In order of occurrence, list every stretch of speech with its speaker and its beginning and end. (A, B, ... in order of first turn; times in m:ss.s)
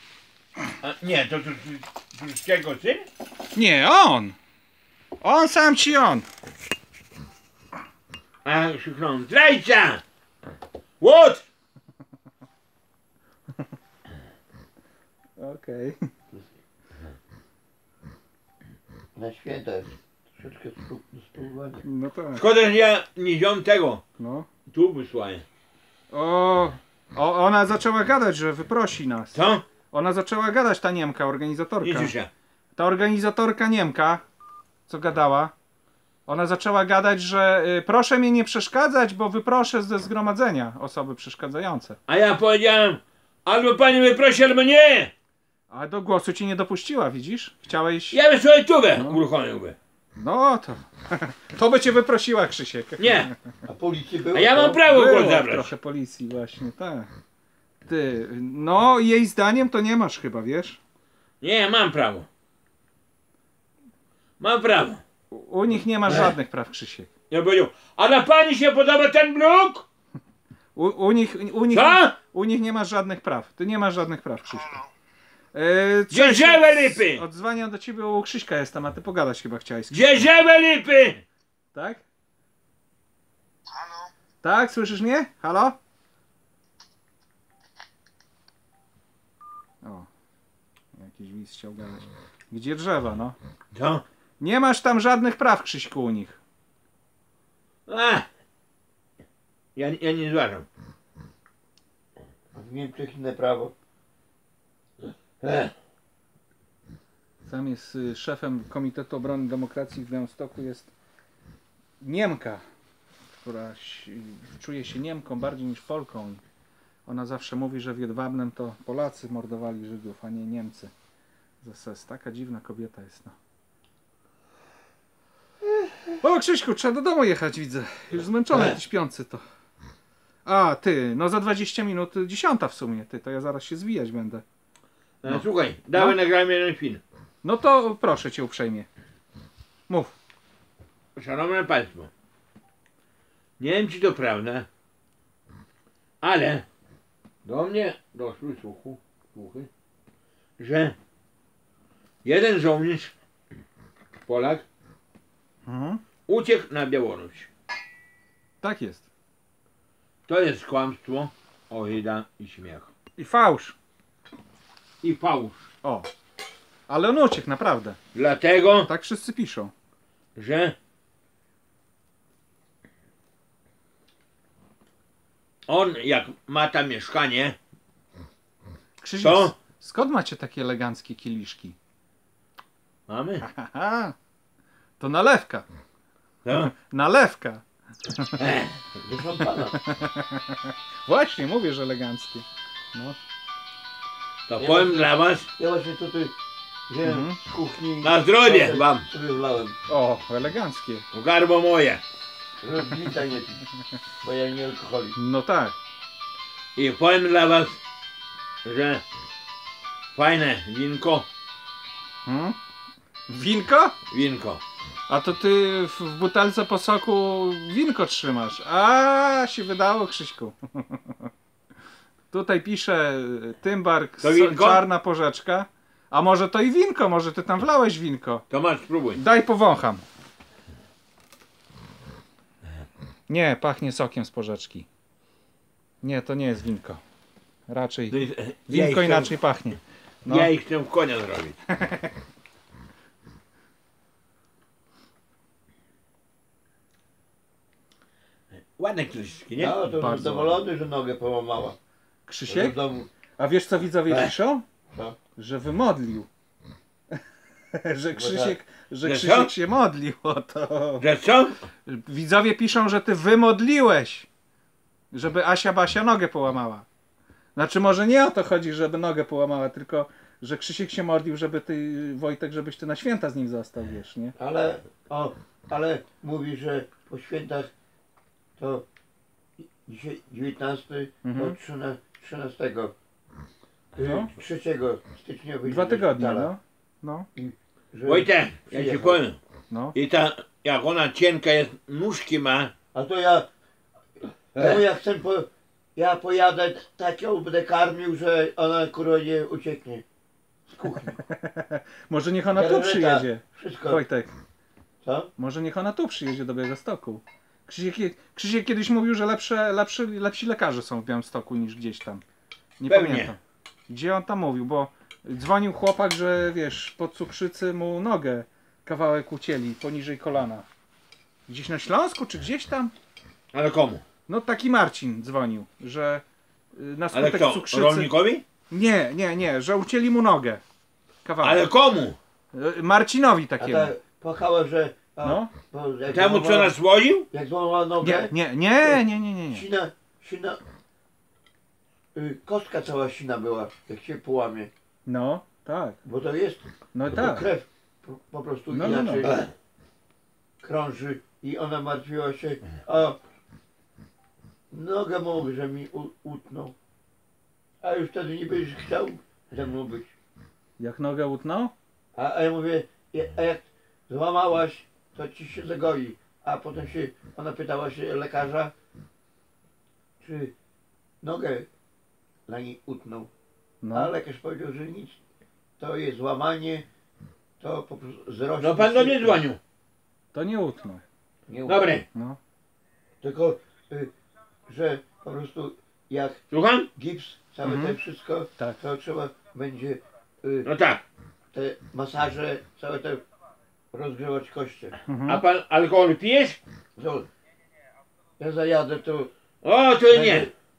0:00.8-0:03.1 A
0:03.6-0:04.4 B
0:05.2-0:06.3 B
0:08.4-0:10.0 A
0:11.0-0:11.4 A
0:15.4-0:16.0 B
0:19.2-0:21.8 C
0:21.8-0:22.4 B
0:22.4-0:24.0 A
0:24.2-0:24.5 B
0:24.7-0:25.4 A
0:26.1-0:29.4 B
0:29.4-0:29.6 A
0:29.9-0:32.1 B
0:31.8-0:32.3 A
0:32.8-0:34.2 B
0:34.9-0:35.5 B
0:36.3-0:42.0 B
0:42.1-0:45.1 A
0:45.7-0:48.2 B
0:48.1-0:49.8 A
0:49.0-0:49.2 B
0:50.2-0:53.3 B
0:53.0-0:53.3 A
0:53.6-0:54.8 C
0:54.3-0:55.7 A
0:54.9-0:57.1 B
0:57.9-1:00.8 B
1:01.4-1:02.3 A
1:04.4-1:05.0 A
1:05.3-1:07.1 B
1:06.1-1:06.3 A
1:07.3-1:09.9 A
1:10.8-1:14.8 B
1:11.7-1:12.1 A
1:15.5-1:20.2 B
1:16.1-1:17.2 A
1:19.9-1:21.2 A
1:21.7-1:22.0 B
1:24.4-1:25.8 B
1:29.8-1:30.1 B
1:31.0-1:33.4 B
1:33.7-1:34.0 A
1:34.4-1:36.4 B
1:37.9-1:38.3 A
1:39.8-1:40.7 A
1:42.5-1:43.7 C
1:45.4-1:45.7 A
1:47.4-1:50.9 B
1:52.0-1:52.6 B
1:53.4-1:56.4 B
1:57.1-2:00.9 B
2:01.6-2:03.4 B
2:06.2-2:09.4 B
2:10.4-2:14.4 B
2:15.2-2:17.0 A
2:15.3-2:16.2 B
2:17.4-2:18.9 B
2:19.9-2:20.1 B
2:21.2-2:22.1 A
2:23.6-2:24.7 A
2:26.2-2:26.6 A
2:27.4-2:29.7 A
2:30.6-2:31.0 A
2:32.2-2:33.1 A
2:34.3-2:34.6 A
2:35.7-2:36.0 B
2:36.3-2:37.5 A
2:38.6-2:39.0 B
2:40.3-2:42.9 A
2:43.2-2:43.8 B
2:45.0-2:45.7 A
2:46.9-2:48.0 B
2:48.1-2:48.9 A
2:48.9-2:49.7 B
2:50.4-2:50.8 A
2:55.7-2:57.6 A
2:59.0-3:01.8 B
2:59.2-2:59.5 A
3:03.1-3:03.4 A
3:03.4-3:04.2 B
3:05.0-3:05.7 B
3:06.4-3:06.7 A
3:06.5-3:08.4 B
3:08.4-3:09.0 A
3:09.0-3:09.8 C
3:09.8-3:13.2 B
3:14.5-3:15.5 A
3:14.6-3:16.4 C
3:16.9-3:19.8 C
3:17.0-3:17.4 B
3:18.0-3:19.1 A
3:19.9-3:21.0 B
3:21.1-3:22.0 A
3:22.6-3:23.6 C
3:24.2-3:25.2 C
3:25.2-3:25.8 B
3:26.8-3:27.8 A
3:28.6-3:29.0 A
3:30.2-3:31.3 A
3:32.2-3:32.6 B
3:33.3-3:34.0 B
3:34.1-3:34.6 A
3:35.1-3:41.2 B
3:42.3-3:48.4 B
3:44.2-3:44.8 A
3:48.5-3:49.2 A
3:49.2-3:50.0 B
3:53.3-3:54.9 B
3:56.0-3:57.0 B
3:57.7-4:00.5 B
3:58.1-3:59.3 A
4:00.3-4:01.6 A
4:01.7-4:02.1 B
4:08.8-4:09.8 A
4:09.6-4:11.8 C
4:09.8-4:10.6 B
4:12.3-4:12.8 B
4:12.5-4:13.1 C
4:13.4-4:14.6 B
4:14.9-4:15.2 C
4:15.4-4:16.3 B
4:17.7-4:21.0 B
4:18.2-4:18.6 C
4:19.0-4:19.5 A
4:21.0-4:21.6 A
4:21.9-4:24.3 B
4:25.1-4:26.9 B
4:27.6-4:34.4 B
4:34.4-4:37.7 C
4:38.6-4:38.9 C
4:39.6-4:42.9 C
4:41.2-4:41.6 B
4:44.0-4:46.5 C
4:44.0-4:44.3 B
4:45.7-4:47.3 B
4:47.4-4:49.2 C
4:48.1-4:49.4 A
4:49.9-4:52.7 A
4:52.9-4:53.5 C
4:54.6-4:54.8 A
4:54.6-5:00.0 C
5:00.7-5:01.2 C
5:01.3-5:04.3 B
5:02.6-5:04.0 C
5:05.0-5:05.3 C
5:05.4-5:12.2 B
5:12.8-5:13.4 B
5:12.9-5:13.3 A
5:13.9-5:20.7 B
5:21.5-5:22.9 B
5:23.5-5:24.0 A
5:24.3-5:26.2 B
5:26.8-5:28.1 B
5:27.1-5:28.4 A
5:28.7-5:30.6 B
5:31.2-5:31.7 B
5:31.4-5:32.2 A
5:32.5-5:33.9 B
5:33.6-5:36.8 C
5:35.2-5:35.5 B
5:36.1-5:37.3 A
5:37.3-5:40.6 C
5:38.0-5:39.7 B
5:42.2-5:44.7 C
5:45.1-5:46.0 B
5:46.0-5:49.5 C
5:46.9-5:47.5 B
5:48.7-5:49.3 B
5:50.6-5:53.2 C
5:54.7-5:56.8 C
5:57.8-6:00.1 C
6:00.8-6:01.7 B
6:02.2-6:08.7 C
6:10.2-6:10.5 C
6:11.2-6:11.7 C
6:12.5-6:13.3 C
6:13.8-6:14.1 B
6:13.9-6:15.2 C
6:15.8-6:16.9 C
6:17.6-6:19.4 C
6:18.6-6:19.6 A
6:20.3-6:21.0 B
6:21.5-6:21.9 C
6:21.7-6:22.0 A
6:23.2-6:24.1 C
6:24.7-6:26.4 C
6:26.5-6:26.9 A
6:27.0-6:30.7 C
6:27.6-6:28.0 B
6:30.7-6:31.0 A
6:31.5-6:33.2 C
6:33.9-6:35.0 C
6:35.1-6:35.4 B
6:35.3-6:36.6 A
6:37.0-6:37.3 C
6:38.4-6:39.3 C
6:39.6-6:40.5 A
6:40.1-6:40.5 C